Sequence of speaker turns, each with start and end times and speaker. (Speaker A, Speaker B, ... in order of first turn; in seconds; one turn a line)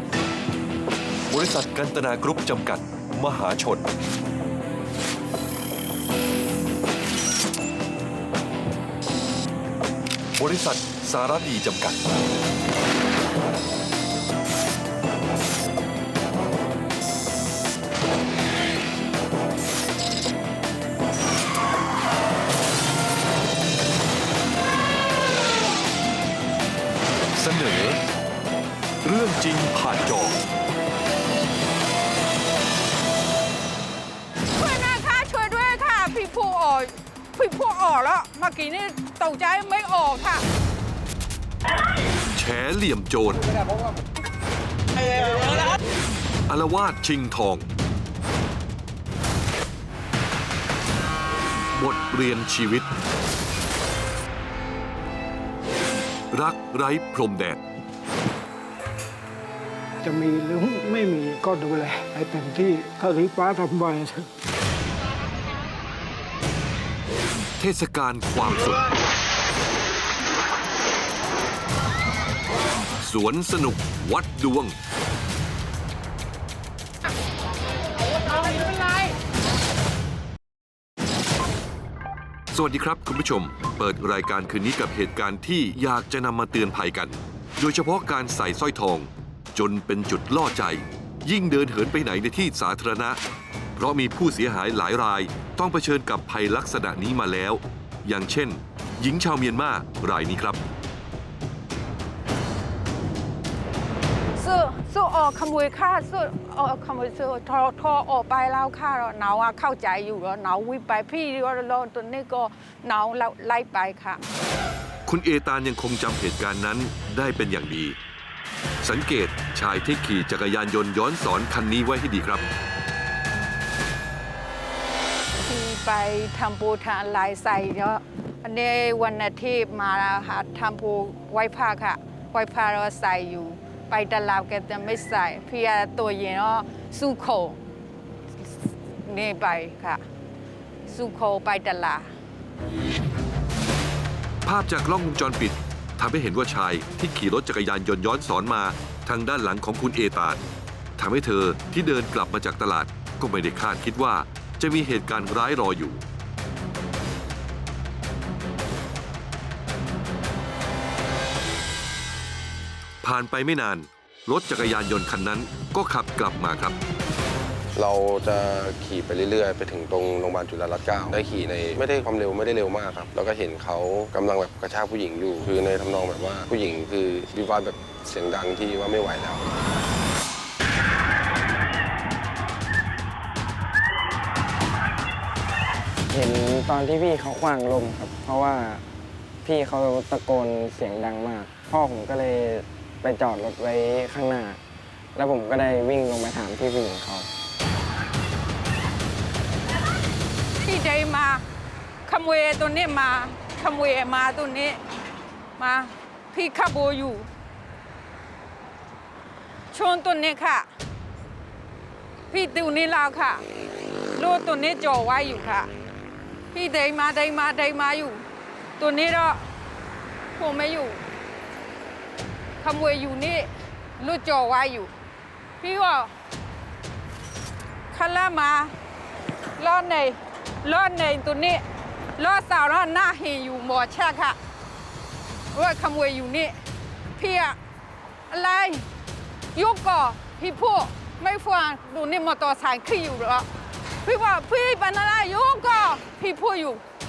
Speaker A: 1.3-3.8
Speaker A: 10.4-12.0
Speaker A: 27.4-28.0
Speaker A: 29.0-30.4
Speaker B: 34.6-40.4
Speaker A: 42.3-43.5
Speaker A: 46.5-47.7
Speaker A: 51.7-52.9
Speaker A: 56.3-57.6
Speaker C: 60.0-64.3
Speaker A: 67.6-68.8
Speaker A: 73.0-74.8
Speaker A: 82.5-93.2
Speaker A: 93.8-100.6
Speaker B: 104.4-114.2
Speaker A: 115.1-118.0
Speaker A: 118.8-122.5
Speaker B: 125.4-137.6
Speaker B: 139.1-140.0
Speaker B: 140.9-142.1
Speaker A: 144.4-150.4
Speaker A: 151.0-156.0
Speaker A: 163.0-166.8
Speaker D: 167.8-179.5
Speaker E: 186.1-188.8
Speaker E: 189.4-194.6
Speaker E: 195.2-197.3
Speaker B: 200.6-201.4
Speaker B: 202.1-204.8
Speaker B: 205.6-207.3
Speaker B: 209.7-210.7
Speaker B: 212.3-213.4
Speaker B: 214.2-215.7
Speaker B: 216.5-218.2
Speaker B: 218.8-219.4
Speaker B: 220.4-221.0
Speaker B: 222.6-224.9
Speaker B: 225.6-226.1
Speaker B: 227.9-228.7
Speaker B: 229.6-231.6
Speaker B: 232.2-234.4
Speaker B: 235.5-236.6
Speaker B: 237.2-237.6
Speaker B: 238.3-238.9
Speaker B: 239.6-243.5
Speaker B: 244.1-246.8